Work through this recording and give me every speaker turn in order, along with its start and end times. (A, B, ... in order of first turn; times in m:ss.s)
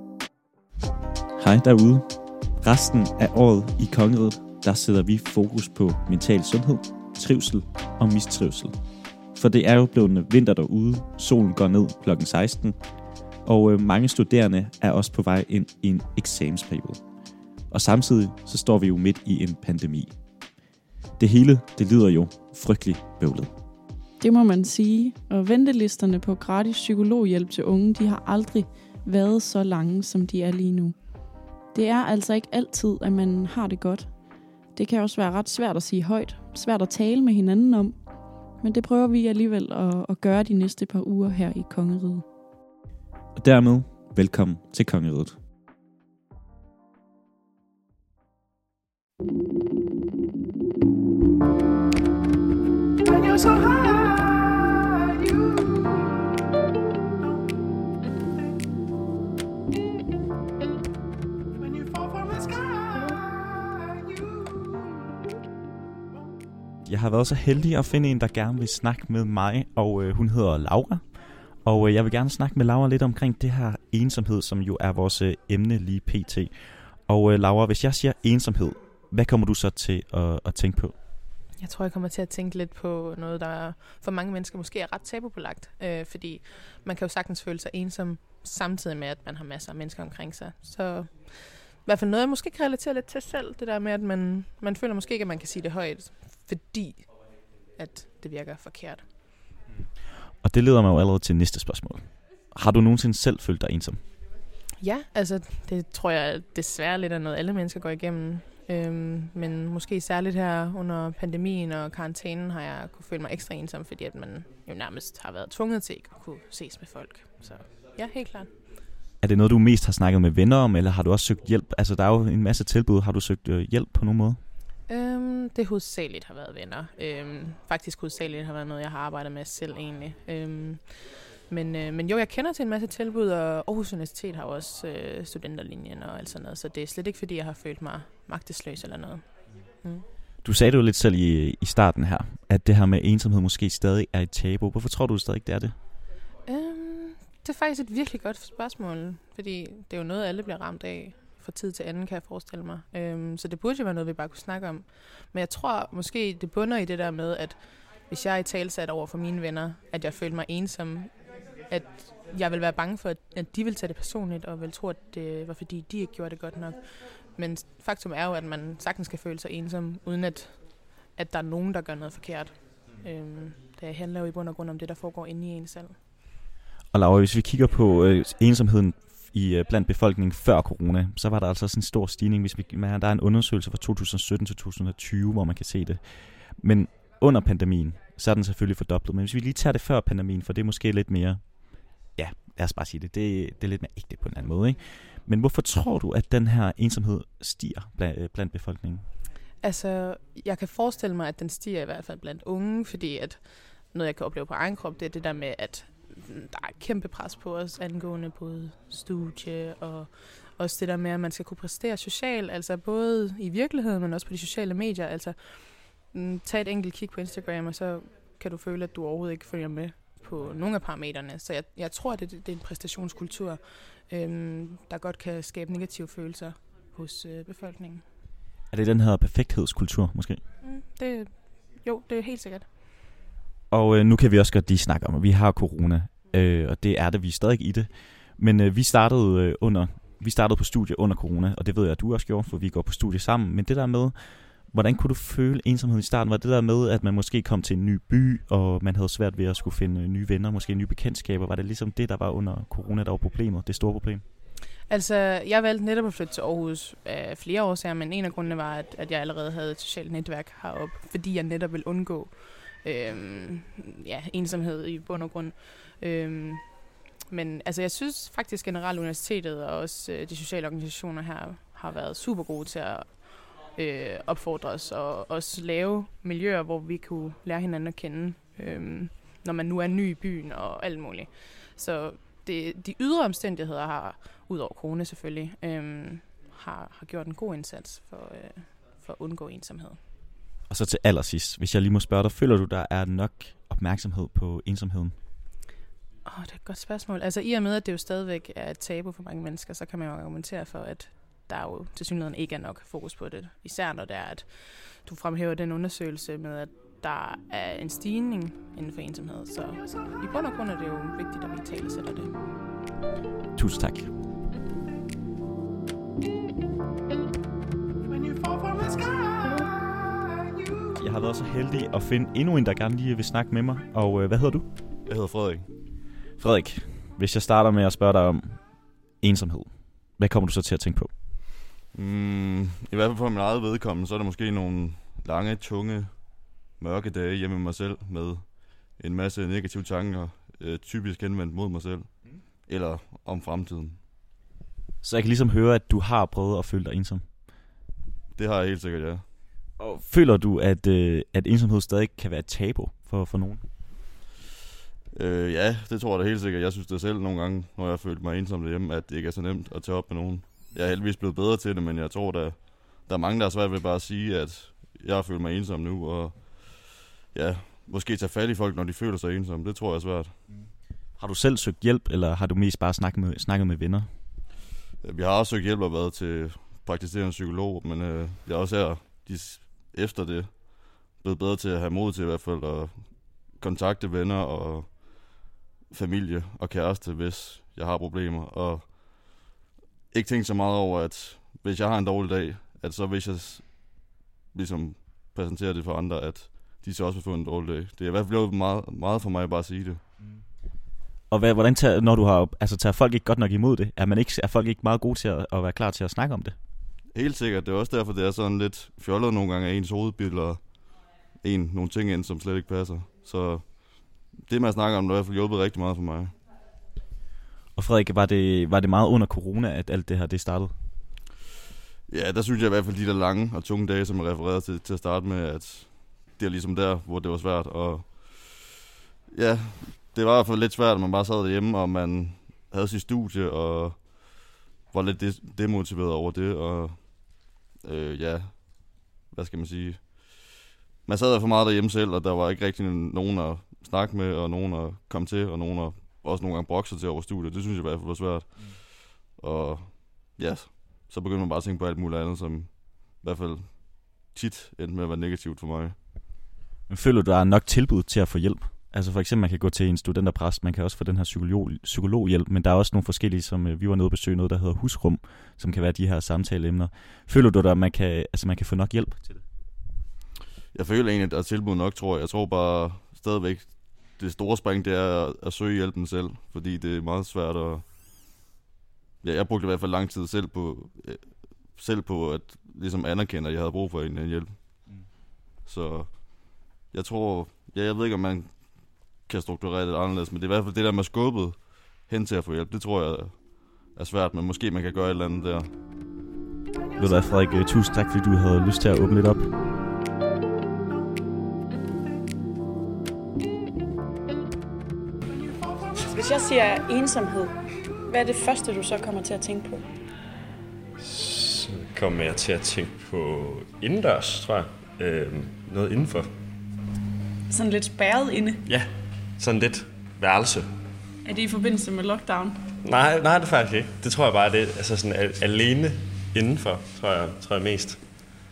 0:01.4-0:08.7 A
0:09.4-0:12.8 A
0:13.4-0:17.0 A
0:17.7-0:20.1 A
0:21.2-0:23.5 A
0:24.2-0:42.2 B
0:43.4-0:45.4 A
1:06.8-1:21.0 A
1:21.6-1:39.1 C
1:40.4-1:44.0 A
1:44.8-1:58.8 C
1:59.2-2:04.4 A
2:04.9-2:20.1 C
2:20.4-2:25.8 A
2:26.4-2:56.0 C
2:56.9-3:19.1 A
3:19.6-3:48.1 C
3:48.7-3:50.4 A
3:50.6-3:52.8 C
3:53.7-4:14.2 A
4:14.9-4:50.0 C
4:50.7-4:55.2 A
4:56.2-5:12.4 C
5:13.6-5:14.1 A
5:21.0-5:24.7 A
5:25.1-5:25.7 D
5:26.4-5:31.1 A
5:31.9-5:44.0 D
5:45.0-5:47.6 A
5:48.4-5:49.2 D
5:49.8-5:53.7 A
5:55.1-6:10.4 D
6:11.2-6:14.1 A
6:15.0-6:29.0 D
6:30.1-6:40.0 D
6:41.3-6:46.6 A
6:47.1-6:56.4 D
6:57.8-7:00.8 A
7:02.1-7:08.7 D
7:09.3-7:36.0 D
7:36.9-7:49.4 A
7:50.7-7:57.8 D
7:59.2-8:04.6 D
8:05.6-8:15.7 D
8:17.0-8:19.5 A
8:26.0-8:27.6 B
8:28.1-8:29.8 B
8:31.0-8:36.3 E
8:37.5-8:38.6 B
8:39.4-8:40.7 E
8:41.2-8:42.6 B
8:42.8-8:48.0 E